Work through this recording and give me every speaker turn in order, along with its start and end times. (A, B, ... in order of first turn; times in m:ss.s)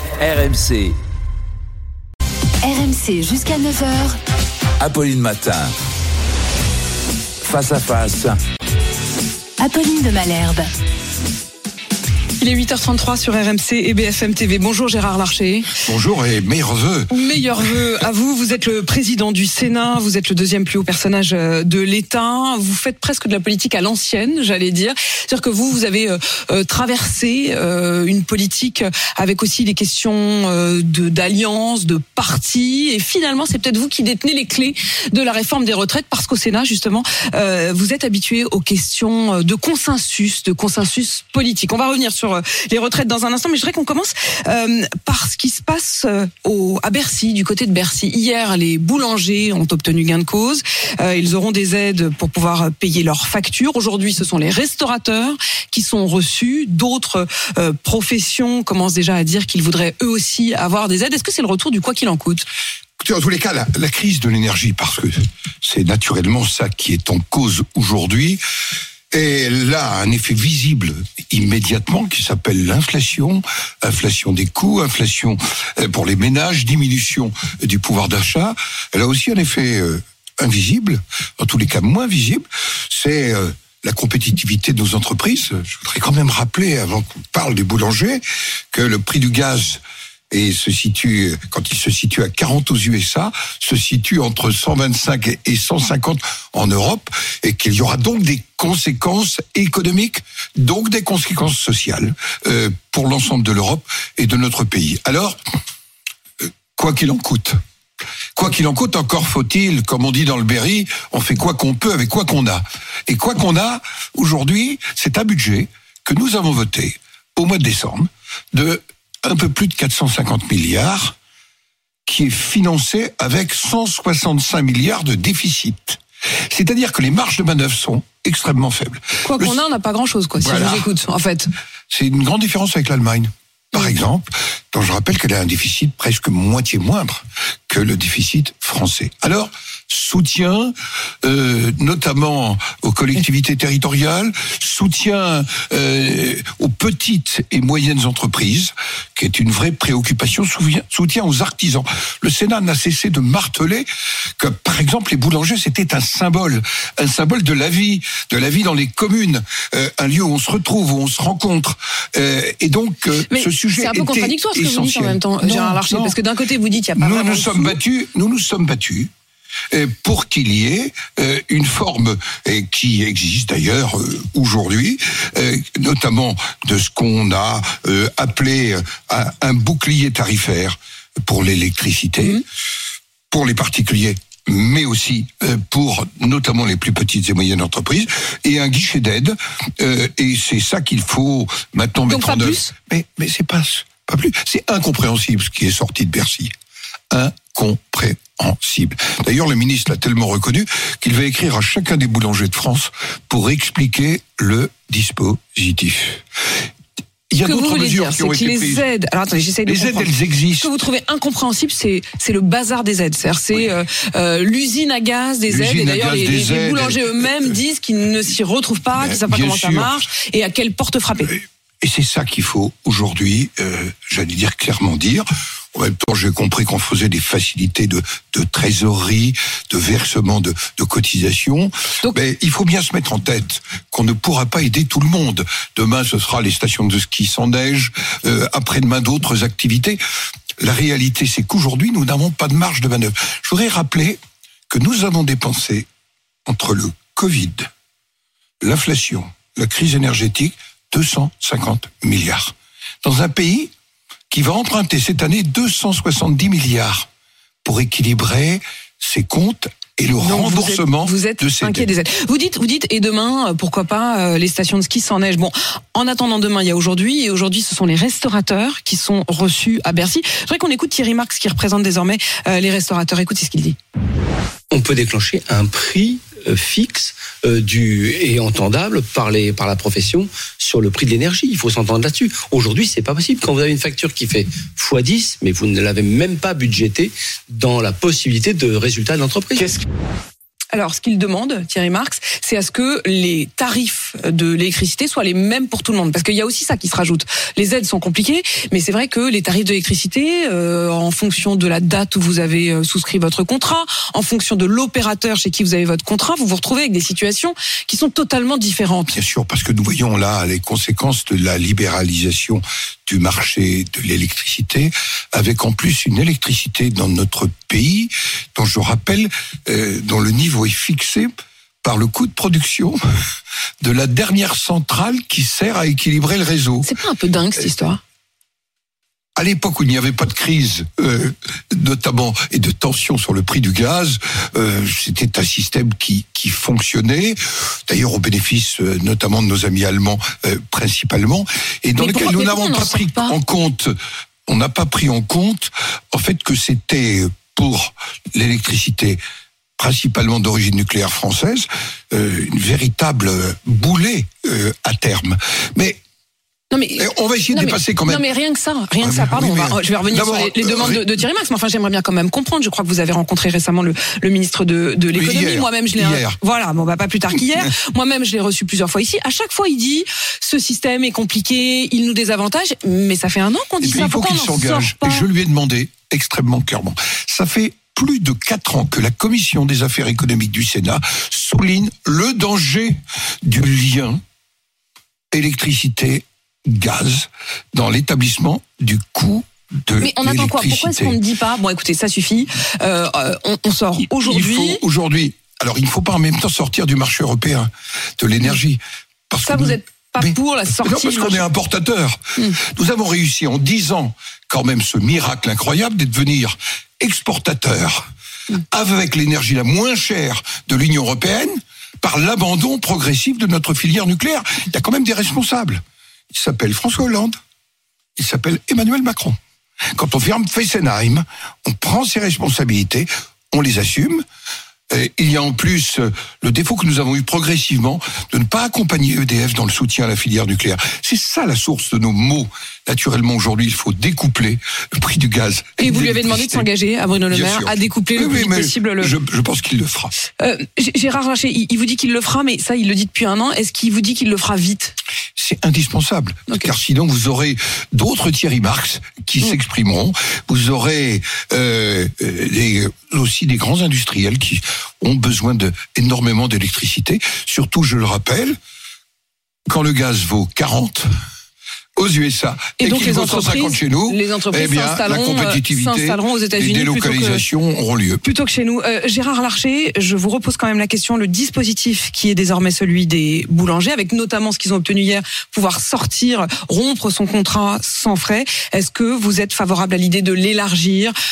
0:00.2-0:01.0 A
0:02.6-0:04.2 B
0:04.8-0:05.7 A
0:07.4-0:08.4 A
0:09.6-0:10.7 B
0:12.4-0:15.8 C
0:15.8-0:17.1 D
0:17.1-1:02.4 C
1:03.0-1:08.4 D
1:09.1-1:45.4 D
1:46.7-1:47.6 D
1:48.4-2:01.2 D
2:02.0-2:09.6 D
2:09.2-2:11.5 C
2:10.4-2:10.9 D
2:11.9-2:33.9 D
2:34.4-2:46.2 D
2:43.3-2:47.8 C
2:47.0-2:49.1 D
2:49.7-3:02.4 D
3:03.3-3:16.5 D
3:12.1-3:12.7 C
3:17.1-3:26.2 D
3:27.3-3:28.8 D
3:27.4-3:41.3 C
3:29.6-3:30.7 D
3:35.5-3:37.5 D
3:38.9-3:40.0 D
3:41.2-4:00.0 D
4:00.6-4:04.2 D
4:04.7-4:05.9 D
4:06.4-4:07.7 D
4:08.6-4:13.7 D
4:14.3-4:17.1 D
4:17.6-4:21.9 D
4:20.2-4:33.8 C
4:34.7-4:49.8 E
4:50.7-5:09.1 C
5:09.1-5:21.3 D
5:21.8-5:23.0 D
5:23.8-5:26.9 D
5:26.8-5:28.0 C
5:29.4-5:43.9 D
5:42.0-5:43.4 C
5:44.5-5:49.2 D
5:49.8-5:56.0 D
5:56.7-6:15.2 C
5:57.0-5:58.3 D
5:59.0-6:01.0 D
6:05.1-6:06.4 D
6:13.8-6:24.2 D
6:25.3-6:31.2 D
6:30.0-6:34.8 C
6:34.1-6:57.4 D
6:39.4-6:41.5 C
6:58.2-6:59.4 D
6:59.9-7:04.2 D
7:04.9-7:16.7 D
7:15.8-7:19.1 C
7:17.3-7:20.1 D
7:20.4-7:24.9 C
7:25.4-7:38.6 D
7:26.5-7:26.7 C
7:39.7-7:41.1 D
7:42.0-7:48.2 D
7:42.8-7:47.4 C
7:48.2-8:01.1 C